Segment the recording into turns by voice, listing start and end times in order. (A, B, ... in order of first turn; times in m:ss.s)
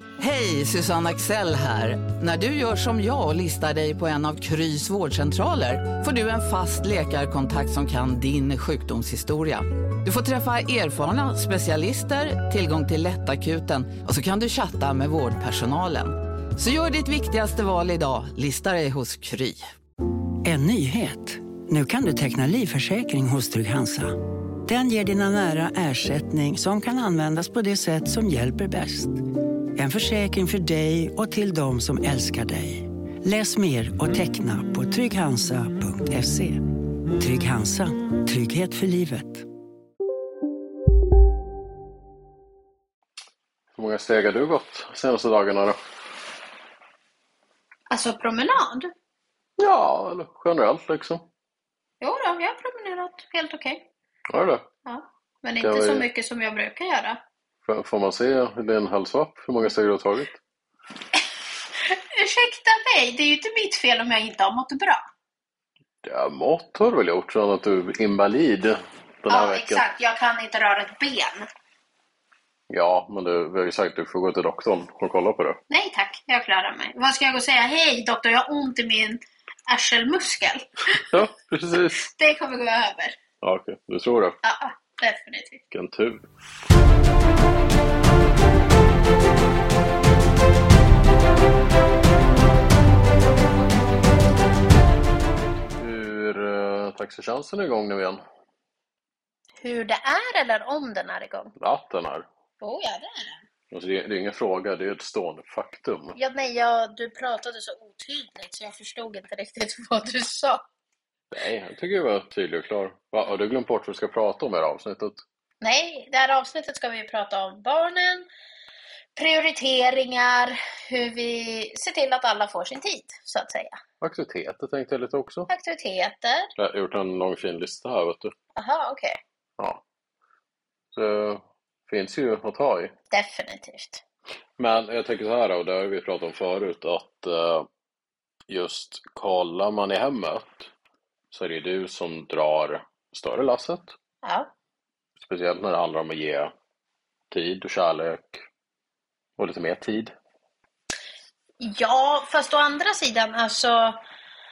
0:00.2-0:19.7 A
0:20.4-0:29.2 B
0:29.7-0:39.4 B
0:43.8-0:45.8 C
0:47.9-0:48.9 D
0:49.6-0:51.2 C
0:52.0-0:53.9 D
0:54.3-0:54.7 C
0:54.8-0:57.2 D
0:55.6-0:56.1 C
0:57.6-1:00.4 C
1:01.8-1:05.0 D
1:06.0-1:09.8 C
1:09.3-1:11.5 D
1:12.7-1:15.6 C
1:15.7-1:21.1 D
1:21.1-1:22.0 C
1:21.9-1:23.2 D
1:23.4-1:24.4 C
1:24.4-1:25.6 D
1:25.7-1:26.2 C
1:35.7-1:38.2 C
1:39.6-1:41.5 D
1:41.6-1:42.3 C
1:42.6-1:43.4 D
1:43.7-1:46.2 C
1:46.2-1:50.6 D
1:51.3-1:55.2 C
1:55.6-1:58.3 D
1:59.2-2:03.8 D
2:04.0-2:05.5 C
2:05.5-2:06.5 D
2:06.6-2:08.3 C
2:08.6-2:09.2 D
2:10.9-2:12.9 C
2:13.1-2:14.0 D
2:14.6-2:17.7 C
2:18.5-2:20.7 C
2:21.3-2:23.9 C
2:24.2-2:24.5 D
2:25.2-2:26.5 C
2:27.3-2:28.4 C
2:29.4-2:30.1 C
2:31.6-2:34.0 D